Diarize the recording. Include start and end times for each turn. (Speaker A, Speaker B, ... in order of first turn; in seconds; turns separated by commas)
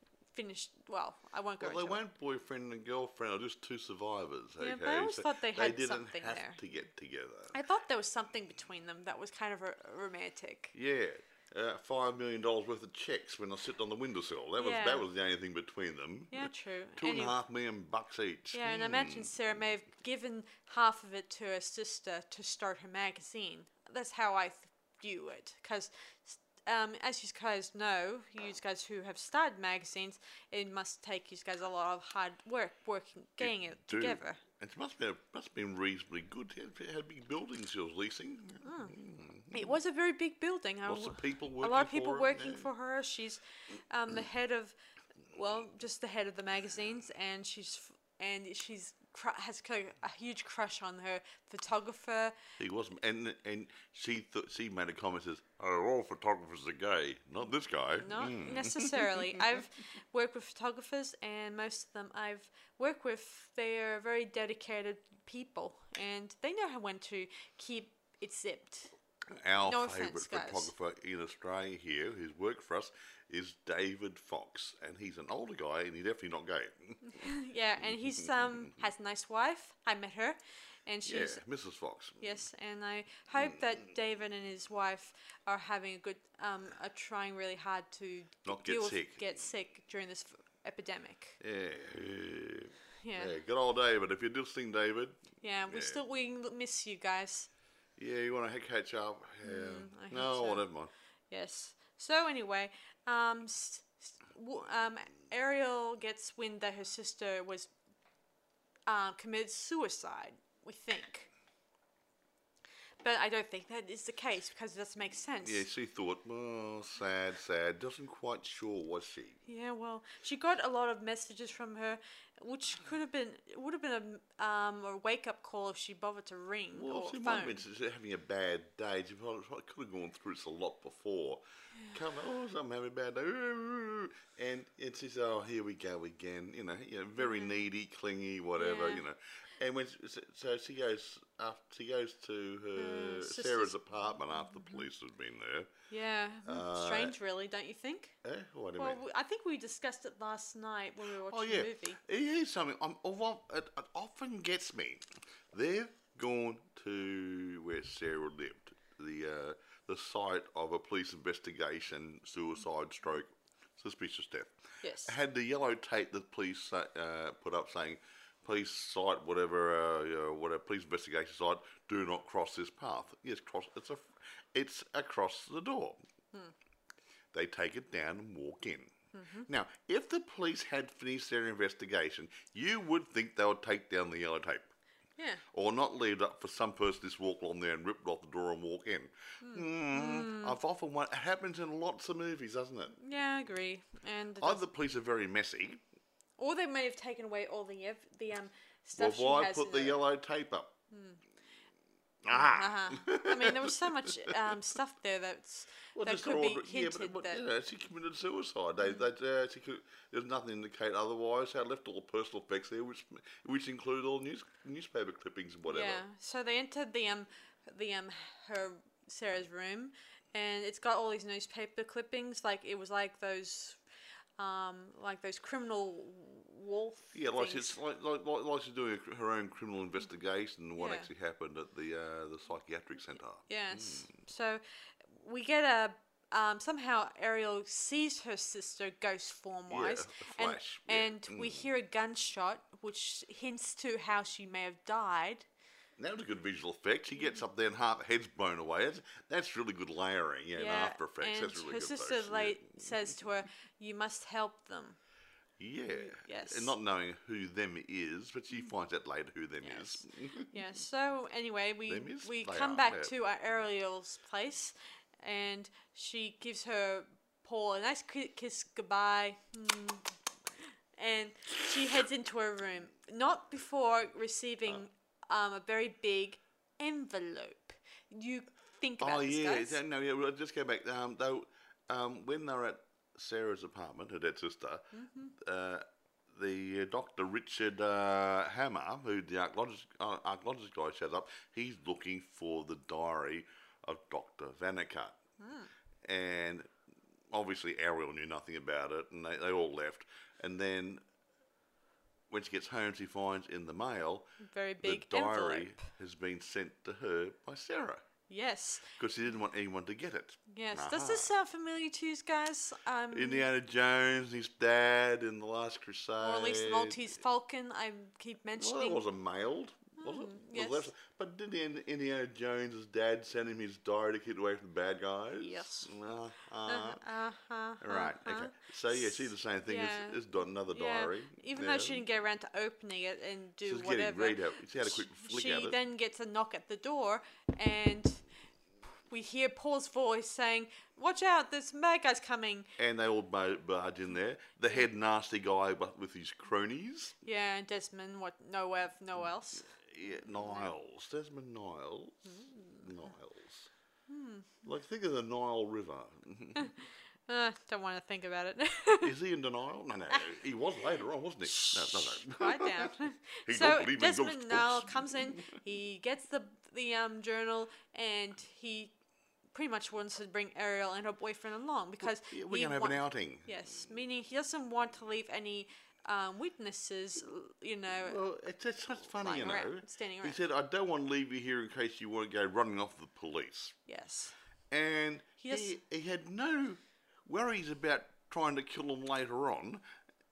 Speaker A: 0.3-2.0, Speaker B: 1.6-7.5, Speaker A: 4.6-6.6, Speaker A: 7.5-10.7, Speaker B: 10.7-19.3, Speaker A: 14.6-15.1, Speaker A: 16.3-17.4, Speaker A: 18.5-34.4, Speaker B: 33.4-39.7, Speaker A: 38.6-39.0, Speaker A: 39.5-44.7, Speaker B: 40.8-42.7, Speaker A: 45.3-52.4, Speaker B: 52.6-59.4, Speaker A: 58.0-68.9, Speaker B: 69.3-77.3, Speaker A: 69.6-70.7, Speaker A: 77.0-81.4, Speaker B: 81.0-82.4, Speaker A: 82.2-91.4, Speaker B: 88.5-89.2, Speaker B: 91.4-96.0, Speaker A: 93.0-93.3, Speaker A: 95.4-97.5, Speaker B: 98.0-100.9, Speaker A: 99.4-100.7, Speaker A: 101.3-107.7, Speaker A: 108.9-111.3, Speaker A: 113.0-115.6, Speaker B: 115.4-119.4, Speaker A: 119.5-127.6, Speaker B: 126.7-145.7, Speaker A: 137.2-137.6, Speaker A: 138.6-139.0, Speaker A: 142.8-143.8, Speaker A: 144.3-144.9, Speaker A: 145.9-148.2, Speaker B: 146.4-147.1, Speaker B: 148.2-149.0, Speaker A: 148.8-152.0, Speaker B: 151.3-176.0, Speaker A: 164.8-165.2, Speaker B: 177.3-178.9, Speaker A: 179.1-179.5, Speaker B: 179.5-184.7, Speaker A: 185.2-185.4, Speaker B: 185.5-193.0, Speaker A: 189.4-190.6, Speaker A: 193.0-194.6, Speaker B: 194.4-195.8, Speaker A: 196.4-200.0, Speaker B: 199.0-200.8, Speaker A: 200.9-201.2, Speaker B: 202.2-204.5, Speaker A: 202.3-207.4, Speaker B: 205.9-216.0, Speaker A: 208.8-209.1, Speaker A: 215.7-223.8, Speaker A: 224.4-227.8, Speaker B: 227.1-234.1, Speaker A: 230.8-231.1, Speaker A: 233.5-245.4, Speaker B: 239.7-241.7, Speaker B: 246.0-252.9, Speaker A: 250.5-255.0, Speaker B: 255.6-260.5, Speaker A: 255.9-256.7, Speaker A: 259.6-270.1, Speaker B: 261.9-263.1, Speaker A: 271.0-279.8, Speaker B: 279.0-295.2, Speaker A: 284.9-285.3, Speaker A: 295.4-295.7, Speaker B: 296.0-296.7, Speaker B: 297.3-301.0, Speaker B: 302.3-308.0, Speaker A: 304.4-305.9, Speaker A: 308.3-308.9, Speaker B: 309.0-311.3, Speaker A: 310.5-313.5, Speaker B: 313.1-317.1, Speaker A: 316.2-319.0, Speaker B: 318.6-327.0, Speaker A: 320.0-320.9, Speaker A: 325.4-325.9, Speaker A: 326.7-338.2, Speaker B: 327.8-332.0, Speaker B: 333.6-335.8, Speaker A: 339.1-342.7, Speaker B: 342.8-347.1, Speaker A: 347.2-350.7, Speaker B: 349.6-353.7, Speaker A: 352.3-352.9, Speaker A: 354.1-354.6, Speaker B: 354.6-356.7, Speaker A: 356.5-359.1, Speaker B: 359.0-362.9, Speaker A: 361.4-368.9, Speaker B: 363.5-365.6, Speaker A: 369.5-378.2, Speaker B: 372.0-373.6, Speaker B: 378.0-383.8, Speaker A: 379.1-380.4, Speaker A: 383.9-384.3, Speaker B: 384.7-389.8, Speaker A: 385.4-385.7